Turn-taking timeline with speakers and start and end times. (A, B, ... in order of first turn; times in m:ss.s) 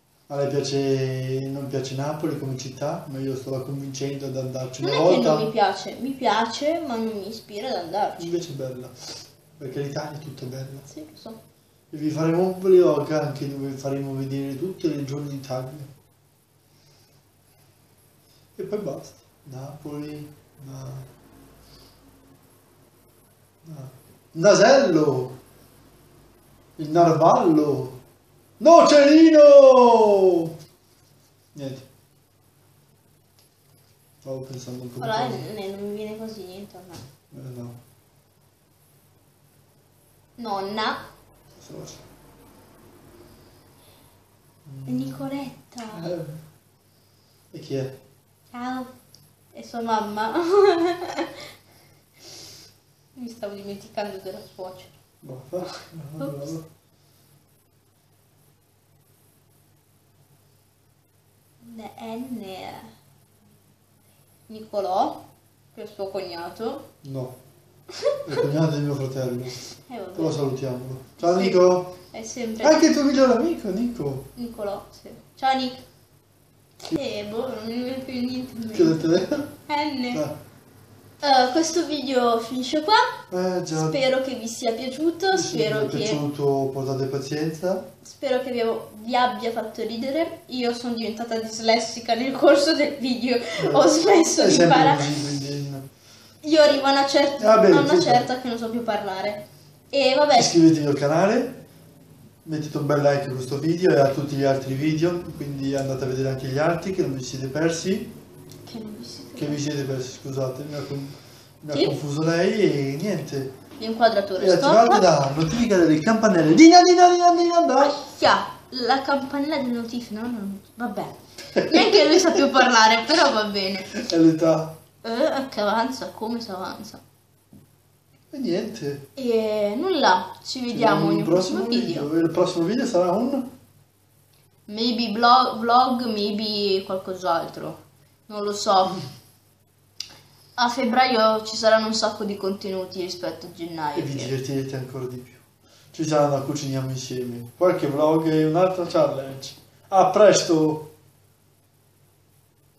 0:00.3-0:05.5 A
0:04.8-0:08.3 B
0:08.2-0:10.9 A
0:10.9-0:11.4 B
0:11.9-0:15.9 A
0:18.6-0:21.1 A
0:23.6-0:25.4 A
0:26.8-0:28.0 A
0:28.6-0:30.5 A
0:31.5-0:31.8 A
0:34.2-0:35.5 A
0:35.0-0:37.0 B
0:37.3-0:37.8 A
0:40.4-0:41.0 B
0:41.6-0:42.0 A
0:44.6-0:45.3 A
0:44.9-0:46.1 B
0:45.9-0:46.4 A
0:47.5-0:48.0 A
0:48.5-0:48.9 B
0:49.5-0:51.4 B
0:53.2-0:54.9 B
0:55.2-0:56.7 A
0:56.2-0:56.5 B
1:01.6-1:02.9 B
1:04.5-1:05.2 B
1:05.7-1:06.8 B
1:07.0-1:07.4 A
1:08.2-1:09.6 A
1:09.9-1:10.4 B
1:10.1-1:12.0 A
1:11.2-1:12.8 B
1:12.6-1:14.3 A
1:14.4-1:15.8 B
1:16.8-1:19.0 B
1:18.7-1:19.5 A
1:19.7-1:20.2 B
1:20.1-1:20.4 A
1:21.2-1:23.1 B
1:23.3-1:24.0 A
1:23.7-1:26.2 B
1:25.3-1:27.9 A
1:28.0-1:35.1 B
1:33.6-1:35.8 A
1:36.4-1:40.5 B
1:37.4-1:38.2 A
1:40.3-1:41.6 A
1:42.4-1:48.1 A
1:48.6-1:49.6 B
1:49.4-1:53.5 A
1:51.7-1:52.0 B
1:53.8-1:55.0 B
1:54.4-1:58.0 A
1:57.8-2:03.9 B
2:01.5-2:02.4 A
2:03.9-2:04.8 A
2:05.0-2:07.0 B
2:08.3-2:09.1 A
2:09.2-2:12.1 B
2:10.7-2:13.5 A
2:14.7-2:19.0 B
2:20.6-2:24.3 B
2:23.9-2:30.9 A